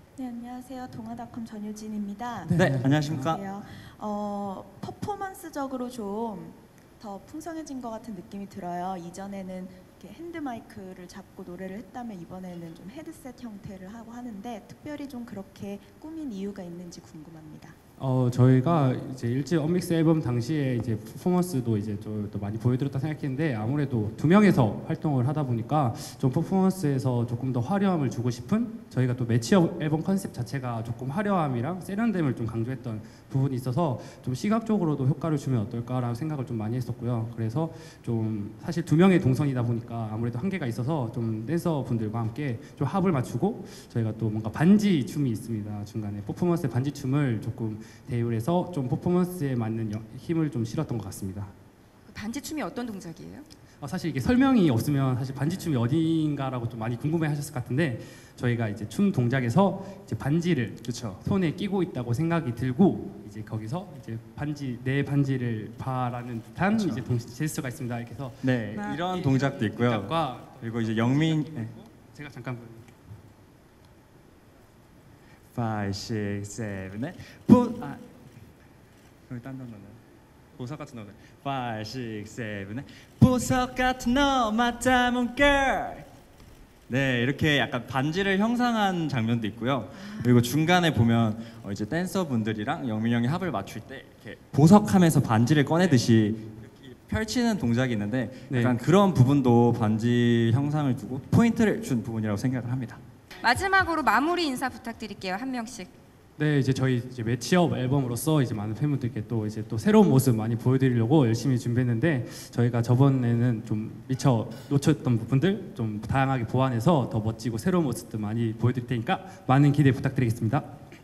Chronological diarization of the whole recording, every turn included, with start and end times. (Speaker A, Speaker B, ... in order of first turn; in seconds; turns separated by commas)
Speaker A: 0.2-17.8, Speaker B: 2.5-3.3, Speaker C: 2.5-3.4, Speaker B: 18.0-51.5, Speaker D: 52.1-53.5, Speaker B: 53.8-72.9, Speaker C: 60.8-61.2, Speaker C: 66.7-67.0, Speaker C: 68.4-71.7, Speaker C: 75.5-78.0, Speaker C: 79.3-80.0, Speaker C: 80.5-86.1, Speaker C: 86.9-103.0, Speaker D: 90.0-90.3, Speaker B: 98.5-98.8, Speaker D: 103.4-105.9, Speaker B: 106.4-120.7